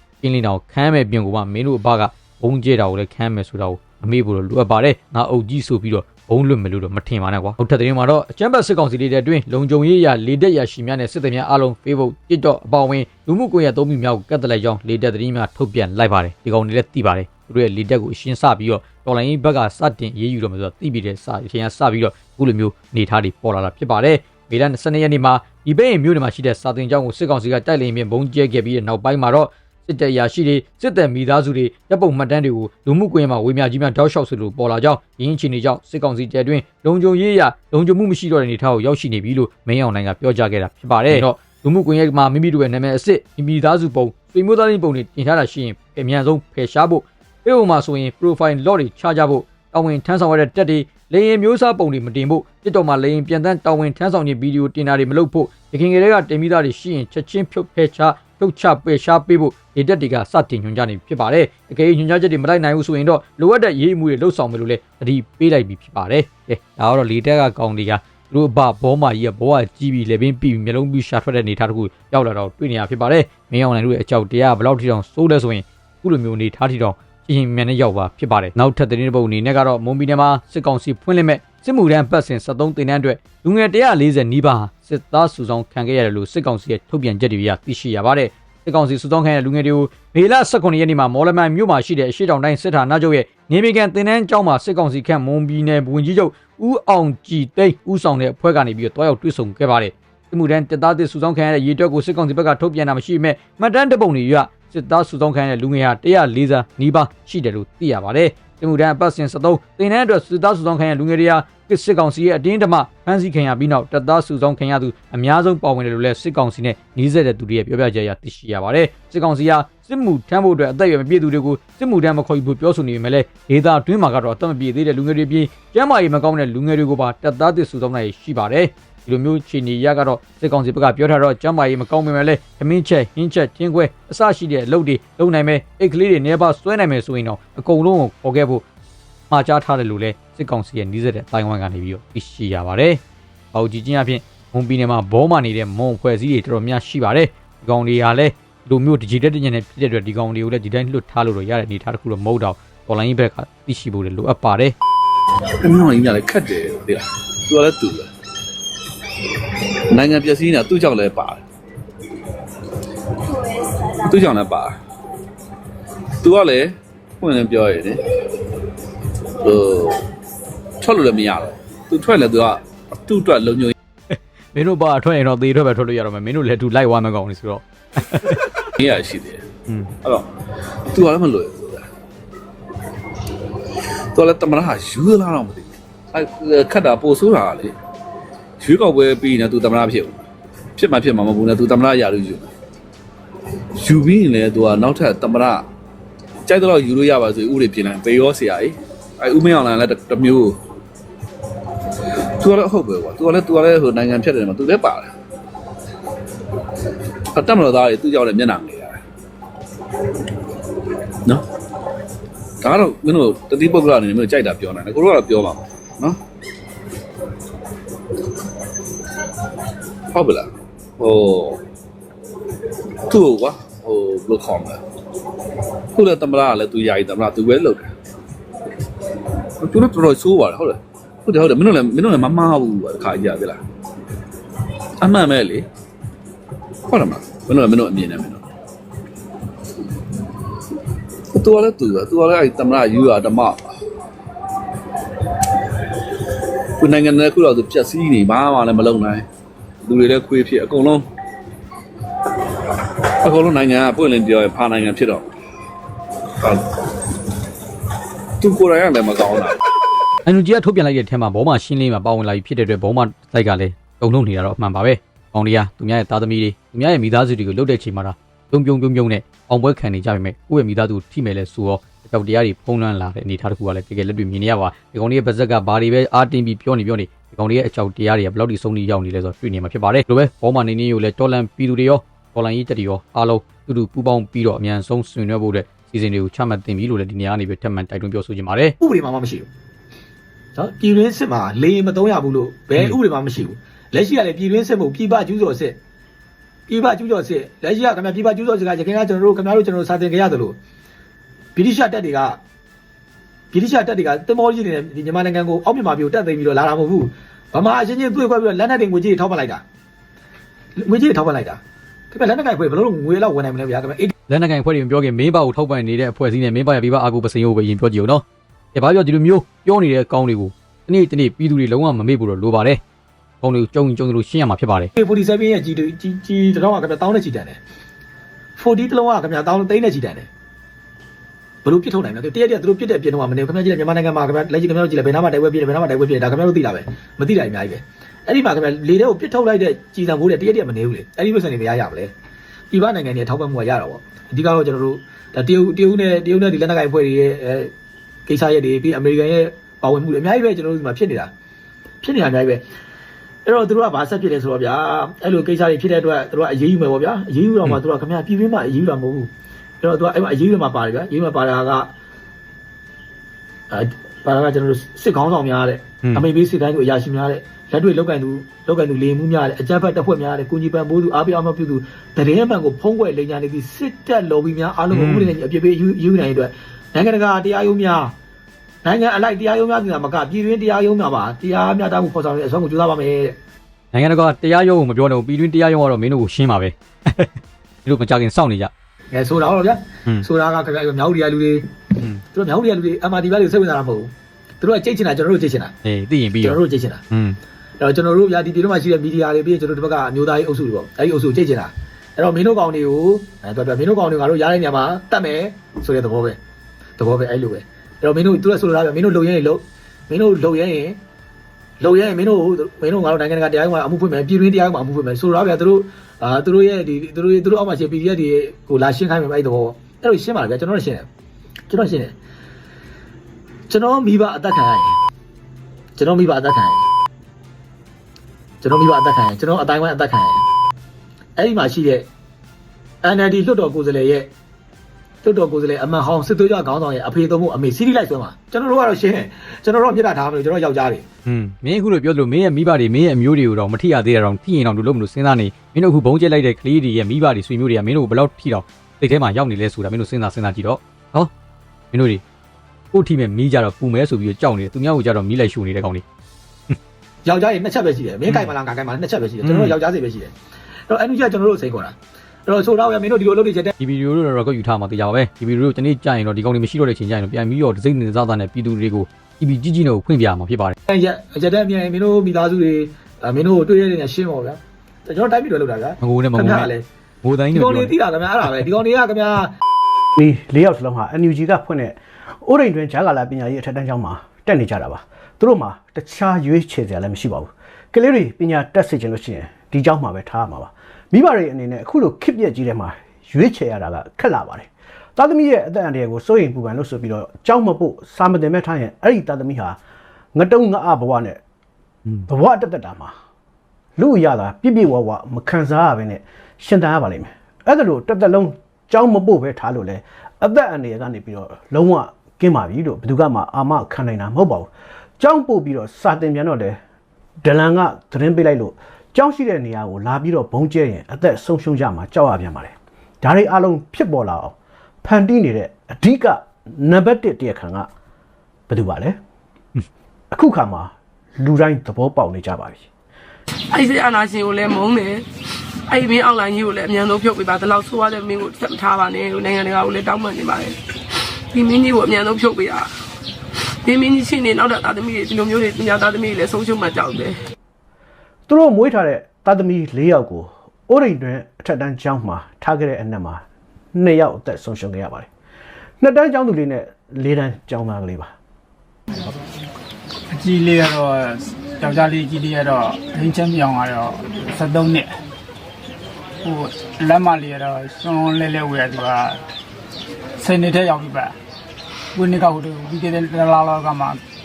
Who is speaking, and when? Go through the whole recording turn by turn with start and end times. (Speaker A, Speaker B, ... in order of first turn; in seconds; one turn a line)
Speaker A: 0.2-138.6
Speaker A: 139.3-143.0
Speaker A: 143.5-154.8
Speaker B: 155.6-158.1
Speaker B: 159.9-161.4
Speaker B: 164.0-164.8
Speaker B: 166.2-168.0
Speaker B: 169.4-170.0
Speaker B: 170.8-173.7
Speaker A: 174.1-178.7
Speaker B: 178.8-179.4
Speaker B: 180.0-180.3
Speaker B: 180.9-181.9
Speaker B: 184.1-187.7
Speaker B: 188.6-190.2
Speaker B: 190.8-192.5
Speaker B: 193.8-195.6
Speaker B: 196.4-200.6
Speaker B: 202.4-205.1
Speaker B: 207.3-209.0
Speaker B: 212.6-216.2
Speaker B: 220.1-221.6
Speaker B: 223.1-224.8
Speaker B: 225.9-227.9
Speaker B: 229.6-233.6
Speaker B: 235.0-235.6
Speaker B: 236.9-238.4
Speaker B: 241.3-243.6
Speaker B: 246.8-249.2
Speaker B: 249.8-251.1
Speaker B: 253.2-255.3
Speaker B: 256.4-256.8
Speaker B: 258.4-259.6
Speaker A: 260.2-288.8
Speaker C: 288.8-289.5
Speaker C: 290.6-295.8
Speaker C: 296.7-300.6
Speaker C: 301.6-302.4
Speaker C: 303.5-309.6
Speaker C: 310.8-314.1
Speaker A: 314.3-322.8
Speaker A: 323.4-324.9
Speaker C: 325.0-327.6
Speaker C: 328.6-330.3
Speaker C: 331.6-342.1
Speaker C: 342.7-347.7
Speaker C: 348.3-351.3
Speaker C: 352.0-352.6
Speaker C: 353.4-361.9
Speaker C: 363.7-378.1
Speaker A: 374.9-375.3
Speaker C: 378.8-383.4
Speaker A: 383.9-388.7
Speaker C: 389.1-395.7
Speaker A: 395.8-397.4
Speaker C: 396.4-397.1
Speaker C: 397.8-406.4
Speaker C: 407.0-411.0
Speaker C: 411.8-421.1
Speaker C: 421.7-422.1
Speaker C: 423.7-425.0
Speaker C: 426.0-426.9
Speaker C: 428.6-430.4
Speaker C: 431.4-432.1
Speaker C: 433.0-434.3
Speaker C: 435.2-441.1
Speaker A: 441.2-451.3
Speaker A: 451.9-452.2
Speaker A: 452.9-456.0
Speaker C: 457.2-460.4
Speaker A: 459.4-459.8
Speaker C: 460.9-463.7
Speaker A: 463.8-470.8
Speaker C: 470.9-476.9
Speaker A: 476.0-476.7
Speaker A: 477.2-477.9
Speaker C: 477.5-479.5
Speaker D: 480.2-499.8
Speaker D: 500.3-501.4
Speaker D: 502.2-503.1
Speaker D: 504.0-516.8
Speaker D: 517.4-527.9
Speaker D: 528.7-529.2
Speaker D: 530.3-532.9
Speaker E: 533.7-535.2
Speaker E: 535.9-540.8
Speaker E: 541.5-542.9
Speaker E: 543.8-547.4
Speaker D: 548.5-555.3
Speaker D: 556.0-558.4
Speaker F: 560.3-565.1
Speaker F: 566.4-569.4
Speaker F: 570.4-571.4
Speaker F: 572.1-574.2